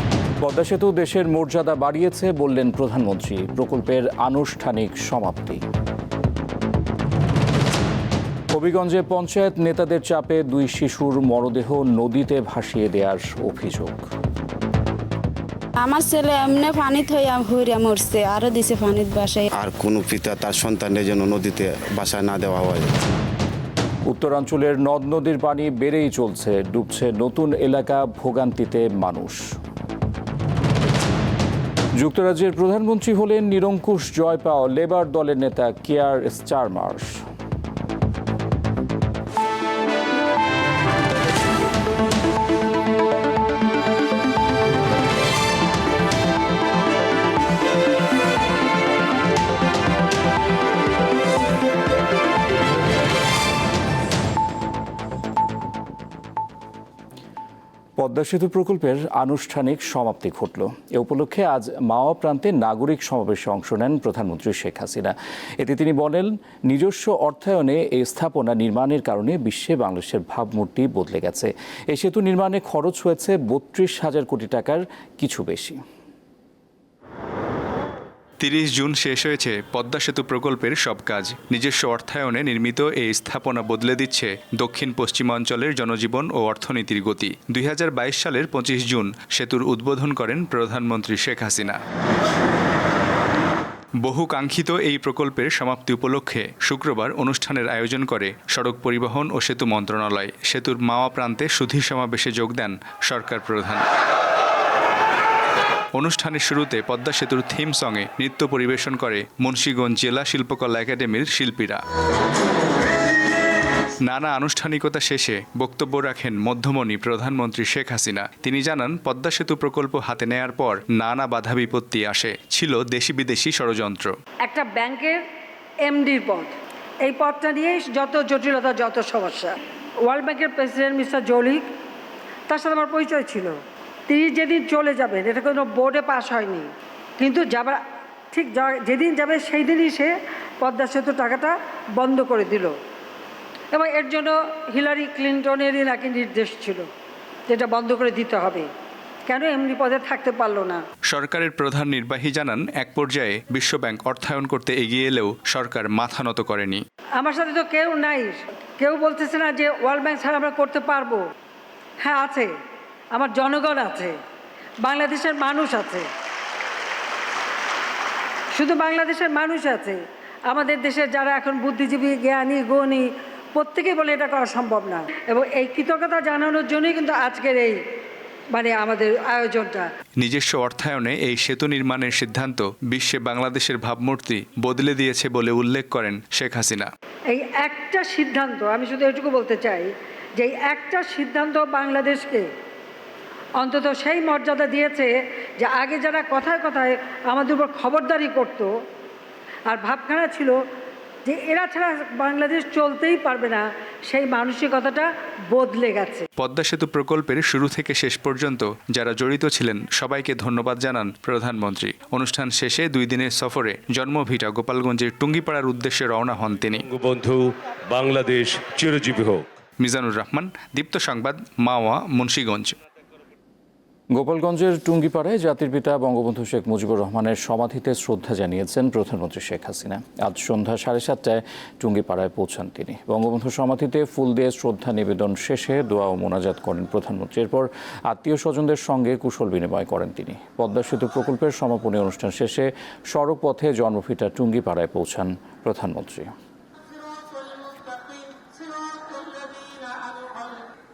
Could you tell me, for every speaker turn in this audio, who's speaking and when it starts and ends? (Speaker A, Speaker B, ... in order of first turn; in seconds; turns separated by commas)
Speaker A: 0.4-5.6, Speaker A: 8.5-14.1, Speaker B: 15.8-19.4, Speaker C: 19.6-22.9, Speaker A: 24.1-29.5, Speaker A: 31.9-37.2, Speaker A: 58.0-75.8, Speaker D: 78.4-91.8, Speaker D: 94.0-103.8, Speaker D: 106.0-111.8, Speaker D: 114.0-124.1, Speaker E: 124.5-125.2, Speaker E: 125.8-126.5, Speaker E: 127.0-129.5, Speaker E: 130.1-131.7, Speaker E: 132.5-133.6, Speaker E: 134.1-136.7, Speaker E: 137.2-137.8, Speaker E: 138.3-142.7, Speaker E: 143.7-146.8, Speaker E: 147.5-148.7, Speaker E: 149.3-150.8, Speaker D: 151.1-156.8, Speaker E: 157.2-161.2, Speaker E: 162.0-162.5, Speaker E: 163.1-164.2, Speaker E: 164.8-166.1, Speaker E: 168.5-177.8, Speaker E: 178.5-179.9, Speaker D: 180.2-186.9, Speaker E: 187.3-192.5, Speaker E: 193.6-198.7, Speaker E: 199.7-200.6, Speaker E: 201.3-206.2, Speaker D: 206.4-216.9, Speaker F: 216.9-219.5, Speaker D: 219.8-222.8, Speaker A: 224.1-246.3